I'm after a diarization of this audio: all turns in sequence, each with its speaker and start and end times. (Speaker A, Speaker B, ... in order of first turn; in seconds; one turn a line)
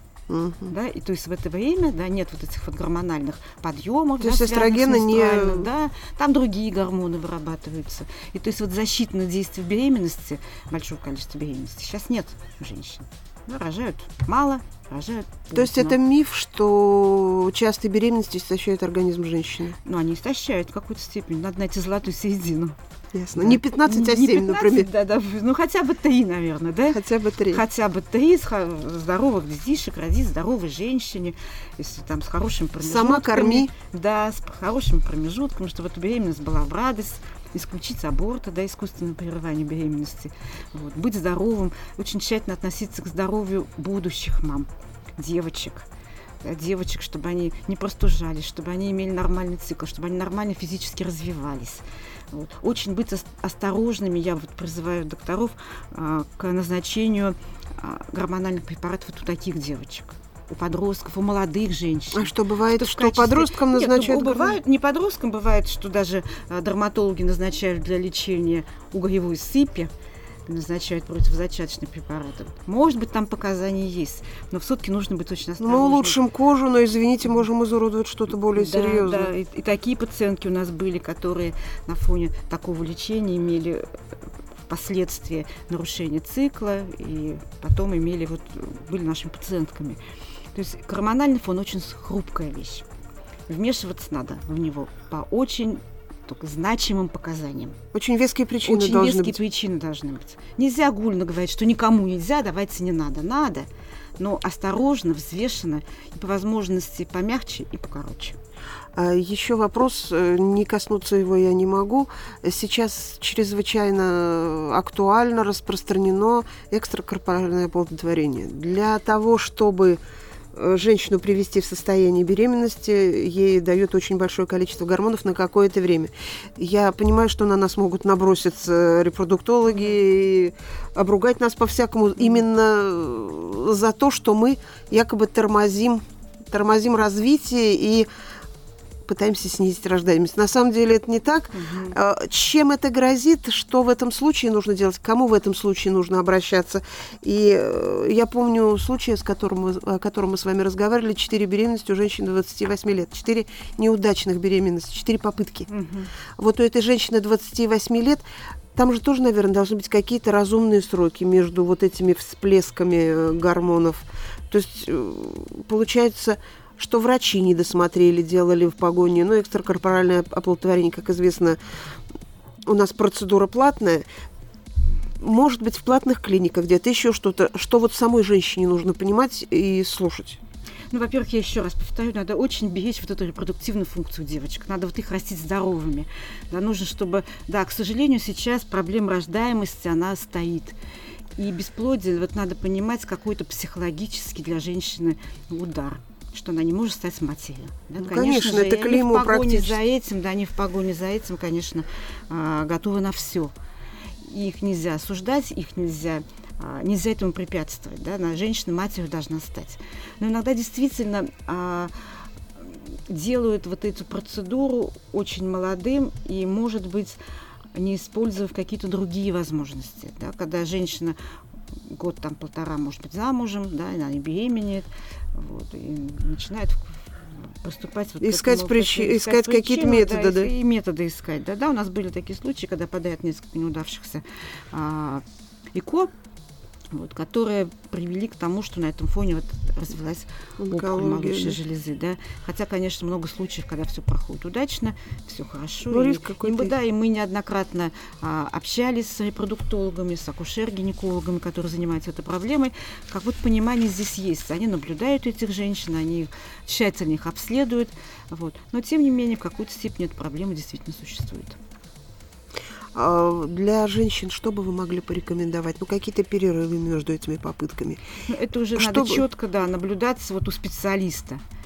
Speaker A: 0.3-0.7
Speaker B: 0.7-16.0
Speaker A: 4.2-5.7
Speaker A: 15.5-19.8
Speaker B: 19.8-22.8
Speaker A: 23.1-24.9
Speaker B: 23.3-45.9
Speaker A: 26.9-27.6
Speaker A: 32.8-33.7
Speaker B: 46.4-69.9
Speaker A: 62.1-64.6
Speaker B: 70.5-76.2
Speaker A: 75.6-79.3
Speaker B: 78.5-83.8
Speaker B: 84.7-90.0
Speaker B: 90.5-92.8
Speaker B: 93.5-97.8
Speaker A: 97.9-99.4
Speaker B: 98.6-108.4
Speaker A: 108.9-120.0
Speaker A: 120.5-138.1
Speaker A: 139.1-155.7
Speaker B: 141.5-141.9
Speaker B: 155.7-156.1
Speaker A: 156.4-158.2
Speaker A: 158.7-171.6
Speaker A: 172.7-174.0
Speaker A: 175.2-180.4
Speaker B: 180.9-190.8
Speaker B: 191.4-203.5
Speaker A: 198.0-199.8
Speaker B: 204.2-211.9
Speaker B: 212.6-217.2
Speaker B: 217.7-221.2
Speaker B: 221.9-227.0
Speaker B: 227.6-236.1
Speaker A: 228.2-230.5
Speaker B: 236.9-261.6
Speaker A: 240.6-241.6
Speaker A: 245.9-246.7
Speaker A: 262.9-268.0
Speaker B: 268.3-271.4
Speaker A: 268.7-269.2